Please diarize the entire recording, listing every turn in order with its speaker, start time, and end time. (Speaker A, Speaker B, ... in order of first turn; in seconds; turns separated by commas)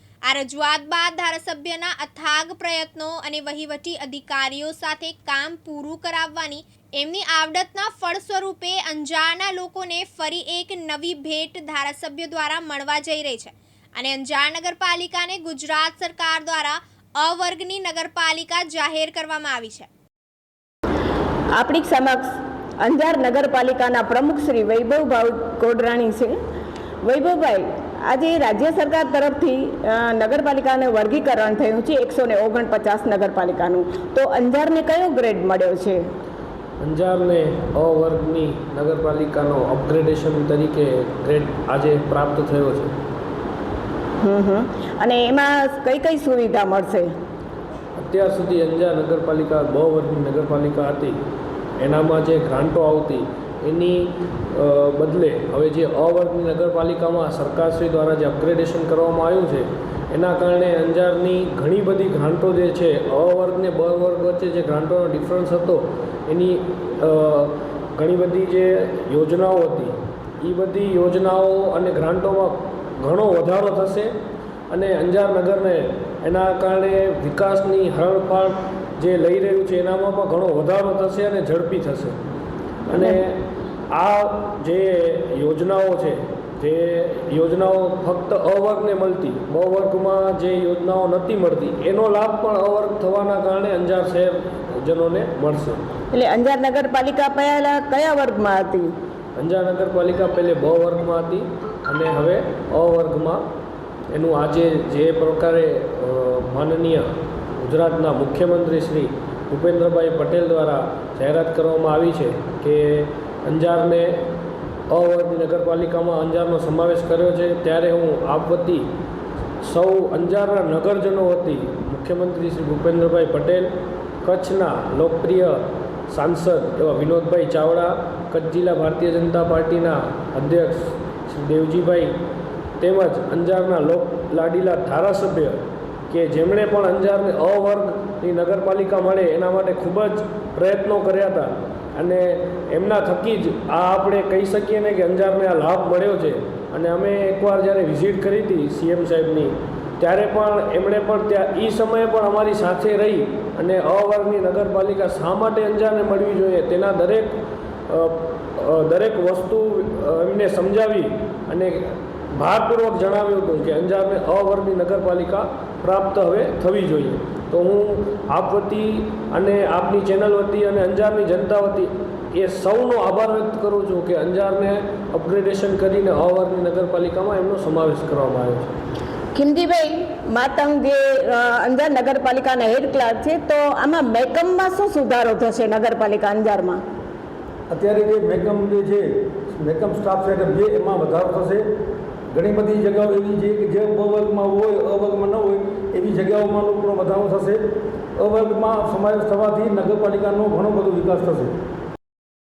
Speaker A: 0.3-19.9, Speaker B: 21.6-26.3, Speaker B: 27.0-36.0, Speaker C: 36.8-42.9, Speaker B: 44.2-47.1, Speaker C: 48.0-51.2, Speaker C: 51.8-74.1, Speaker C: 74.7-82.2, Speaker C: 82.9-83.4, Speaker C: 83.9-95.8, Speaker B: 96.1-98.9, Speaker C: 99.4-103.5, Speaker C: 104.1-114.2, Speaker C: 114.9-118.9, Speaker C: 119.6-123.7, Speaker C: 124.2-132.2, Speaker C: 132.8-157.4, Speaker C: 157.9-178.7, Speaker B: 179.3-186.8, Speaker D: 187.7-191.7, Speaker D: 192.3-197.6, Speaker D: 198.2-201.5